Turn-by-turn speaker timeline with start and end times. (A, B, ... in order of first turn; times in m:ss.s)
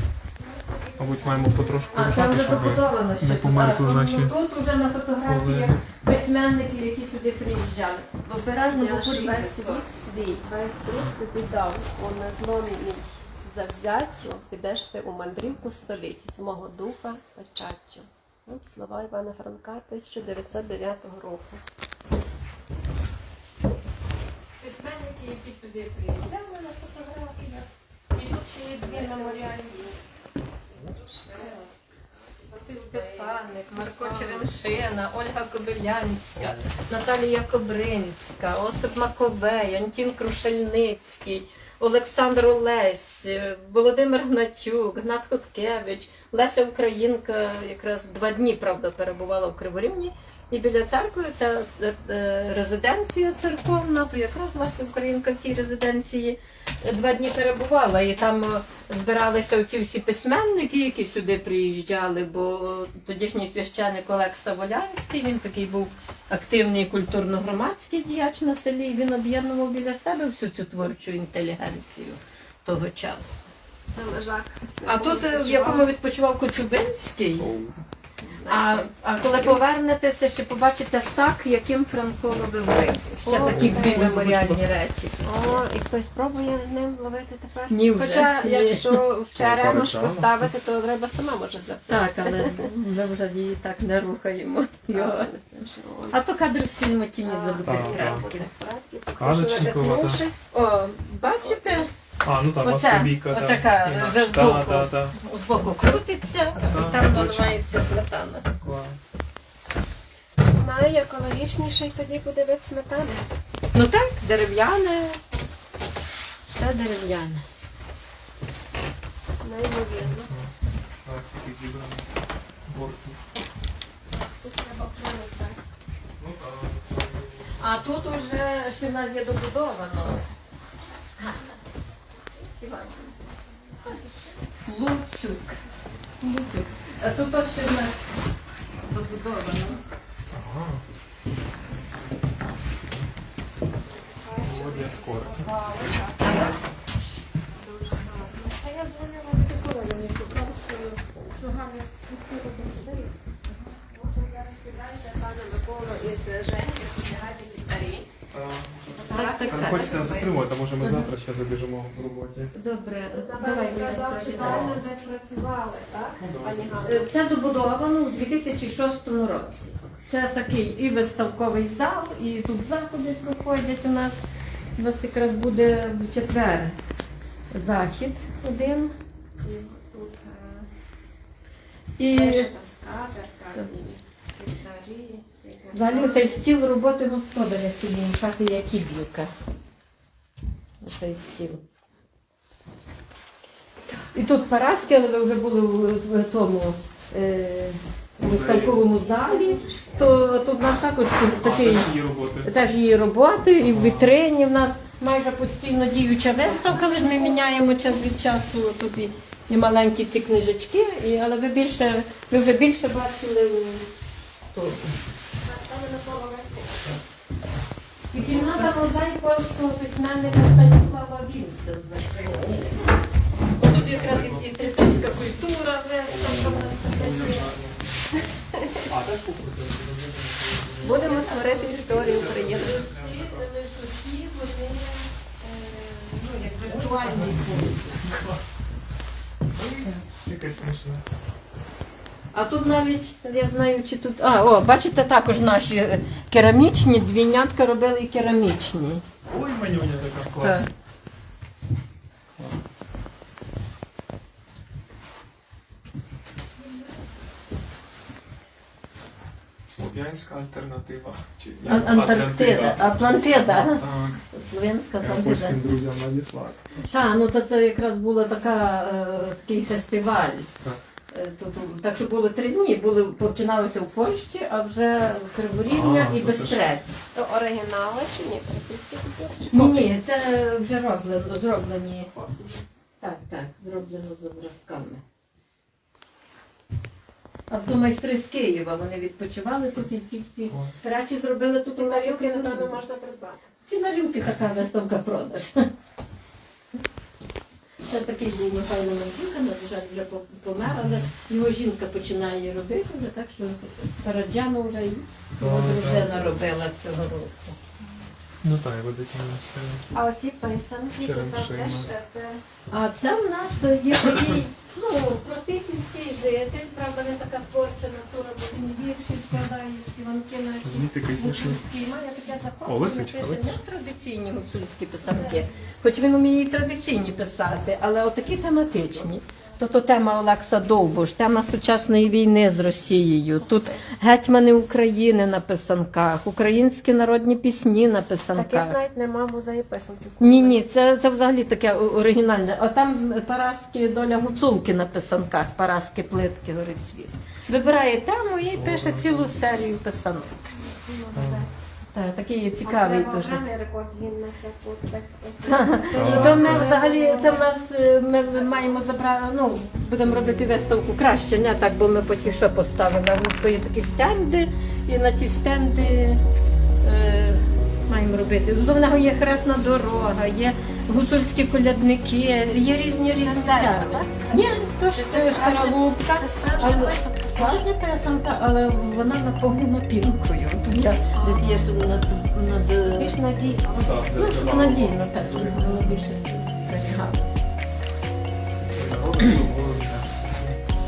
0:00.4-0:02.8 A
0:01.0-0:04.4 B
0:01.9-0:09.8 C
0:05.3-0:05.8 B
0:08.7-0:21.6 A
0:24.6-0:29.9 C
0:28.8-0:30.0 A
0:30.8-0:31.8 A
0:31.4-0:31.7 C
0:32.5-0:34.5 A
0:32.5-1:13.5 C
0:36.4-0:36.7 B
1:13.9-1:15.9 A
1:14.8-1:17.5 C
1:17.4-1:17.8 B
1:18.3-1:19.6 A
1:18.5-1:25.6 C
1:23.2-1:24.1 A
1:23.4-1:24.6 B
1:25.2-1:32.7 A
1:27.7-1:29.0 C
1:29.4-1:30.4 B
1:31.9-1:35.3 C
1:34.9-1:36.2 A
1:36.1-1:38.5 C
1:37.2-1:40.5 A
1:37.6-1:38.3 B
1:39.2-1:40.2 B
1:40.5-1:41.9 C
1:41.4-1:41.9 A
1:42.2-1:45.2 B
1:42.6-1:48.5 C
1:46.6-1:47.7 B
1:48.6-1:49.1 B
1:50.5-1:53.2 A
1:53.7-1:55.2 C
1:56.5-1:57.4 C
1:59.4-2:00.3 A
2:00.0-2:00.5 B
2:01.0-2:02.1 B
2:02.7-2:03.2 B
2:04.1-2:05.6 A
2:06.2-2:08.4 B
2:07.6-2:10.2 C
2:11.2-2:11.5 C
2:12.4-2:13.2 C
2:13.9-2:14.2 A
2:14.6-2:15.6 C
2:16.2-2:18.2 C
2:18.8-2:19.8 C
2:20.3-2:20.8 B
2:23.9-2:26.6 A
2:24.4-2:25.5 B
2:26.3-2:26.5 C
2:27.5-2:28.6 A
2:28.4-2:33.1 C
2:33.8-2:38.1 A
2:38.3-2:42.5 B
2:39.0-2:40.4 A
2:39.1-2:40.0 C
2:40.8-2:41.1 C
2:42.5-2:44.9 C
2:43.1-2:47.1 A
2:44.4-2:44.9 B
2:46.2-2:46.7 B
2:46.8-2:56.8 C
2:57.5-2:59.0 C
2:59.4-3:00.7 A
3:02.0-3:02.5 C
3:02.1-3:06.5 A
3:05.7-3:09.3 C
3:10.8-3:11.6 C
3:14.1-3:21.9 C
3:18.2-3:18.8 B
3:18.8-3:20.5 A
3:21.4-3:22.5 B
3:22.4-3:33.9 C
3:23.6-3:24.2 B
3:34.5-3:34.9 C
3:35.4-3:37.0 A
3:38.1-3:42.9 C
3:38.2-3:38.7 A
3:42.2-3:42.6 B
3:43.6-3:47.5 C
3:43.6-3:44.5 B
3:46.1-3:48.2 B
3:48.8-3:53.5 B
3:50.8-3:52.8 A
3:50.8-3:58.0 C
3:55.6-3:56.9 A
3:56.7-3:58.5 B
3:59.6-4:01.0 B
3:59.8-4:00.0 C
4:02.3-4:09.0 C
4:09.3-4:10.7 B
4:10.4-4:10.7 C
4:12.4-4:12.7 B
4:19.7-4:24.2 B
4:21.7-4:25.6 C
4:25.0-4:26.9 B
4:26.9-4:30.5 C
4:31.1-4:37.1 C
4:35.7-4:36.6 B
4:37.1-4:39.9 A
4:39.5-4:42.1 C
4:42.1-4:42.6 A
4:43.0-4:45.0 C
4:47.5-4:52.8 C
4:50.5-4:50.8 B
4:51.7-4:53.5 A
4:53.6-4:55.7 C
4:57.8-5:07.6 C
5:00.7-5:01.1 B
5:05.4-5:06.4 B
5:08.4-5:09.9 B
5:09.9-5:12.4 A
5:11.0-5:11.9 B
5:12.7-5:38.8 C
5:20.6-5:21.6 B
5:22.6-5:23.6 B
5:38.4-5:40.6 A
5:40.2-5:50.3 C
5:48.4-5:49.3 B
5:50.6-5:51.6 A
5:51.2-5:51.5 B
5:51.9-5:53.4 C
5:52.6-5:57.6 A
5:55.4-6:06.2 C
5:56.0-5:56.7 B
5:58.3-5:58.9 A
6:06.8-6:23.2 C
6:13.2-6:17.7 A
6:21.2-6:21.7 A
6:22.9-6:23.9 A
6:23.7-6:26.0 B
6:24.1-6:27.5 C
6:28.6-6:30.6 B